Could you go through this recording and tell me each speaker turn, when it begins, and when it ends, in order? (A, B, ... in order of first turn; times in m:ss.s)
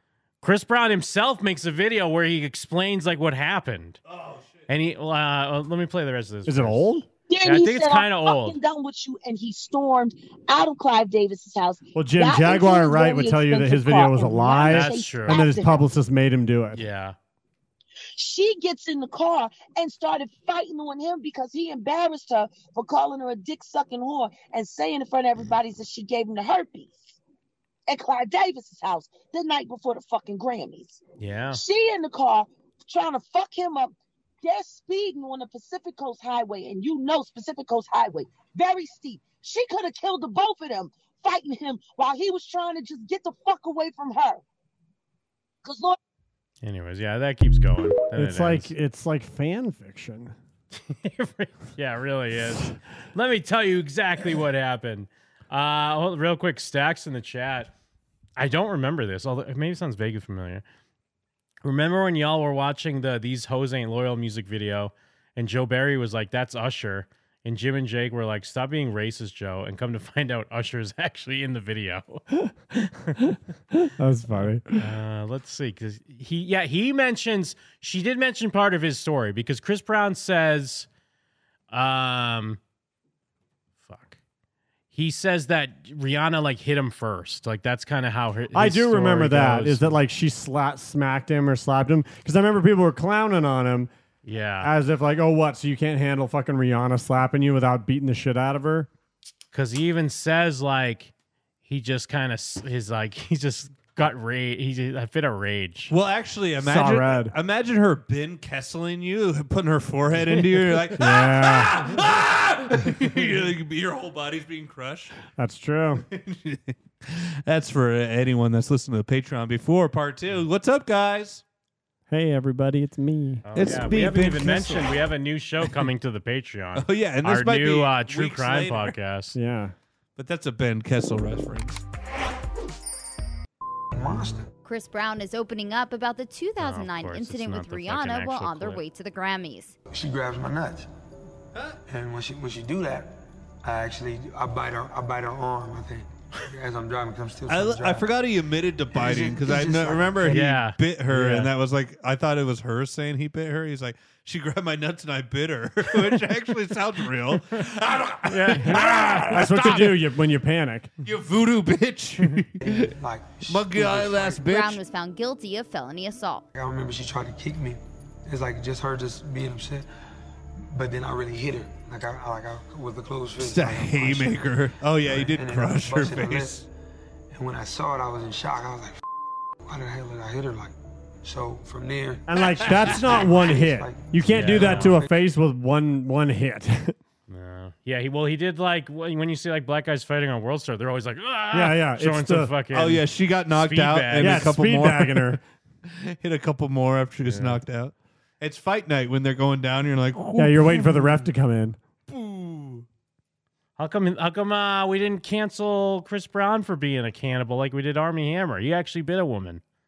0:00.4-0:04.0 A
0:04.0-0:04.6 B
0:04.7-0:06.9 A
0:06.4-0:07.0 C
0:07.3-0:15.8 D
0:07.4-0:08.6 A
0:12.0-0:16.8 C
0:14.6-0:15.5 A
0:16.7-0:17.2 A
0:18.1-0:27.2 D
0:27.9-0:44.4 D
0:31.2-0:31.6 A
0:45.6-0:46.0 D
0:46.6-0:48.7 A
0:48.2-0:50.3 C
0:50.8-0:57.7 A
0:58.4-1:00.6 A
1:01.6-1:12.2 A
1:13.8-1:14.6 C
1:14.8-1:20.9 A
1:21.7-1:22.6 A
1:23.9-1:24.2 A
1:24.9-1:30.0 A
1:28.5-1:33.9 C
1:34.2-1:34.7 A
1:34.6-1:38.9 C
1:39.5-1:41.1 A
1:41.6-1:45.9 A
1:45.9-1:55.1 B
1:46.6-1:47.3 C
1:51.0-1:51.9 C
1:55.4-1:56.0 C
1:56.1-2:01.4 B
2:02.1-2:03.4 C
2:03.4-2:09.4 A
2:03.5-2:04.9 B
2:06.8-2:09.0 B
2:09.3-2:09.7 C
2:10.2-2:11.8 B
2:13.9-2:14.5 E
2:14.6-2:19.7 F
2:16.6-2:18.9 A
2:19.9-2:20.9 E
2:21.9-2:28.2 E
2:27.5-2:40.0 B
2:28.9-2:30.4 E
2:30.2-2:31.5 A
2:38.3-2:39.2 A
2:38.7-2:40.9 C
2:41.0-2:42.9 B
2:42.6-2:44.4 E
2:43.4-2:44.8 B
2:44.3-2:46.4 F
2:46.5-2:49.9 E
2:50.7-2:54.5 E
2:53.4-2:56.6 B
2:55.0-2:56.6 E
2:57.3-2:59.0 E
2:59.7-3:05.1 E
3:02.3-3:07.0 C
3:02.4-3:03.2 B
3:04.3-3:05.0 A
3:07.3-3:14.5 A
3:11.5-3:12.5 C
3:12.7-3:21.2 B
3:14.2-3:15.4 C
3:17.2-3:17.6 A
3:20.4-3:21.8 C
3:22.1-3:22.9 B
3:23.8-3:29.6 A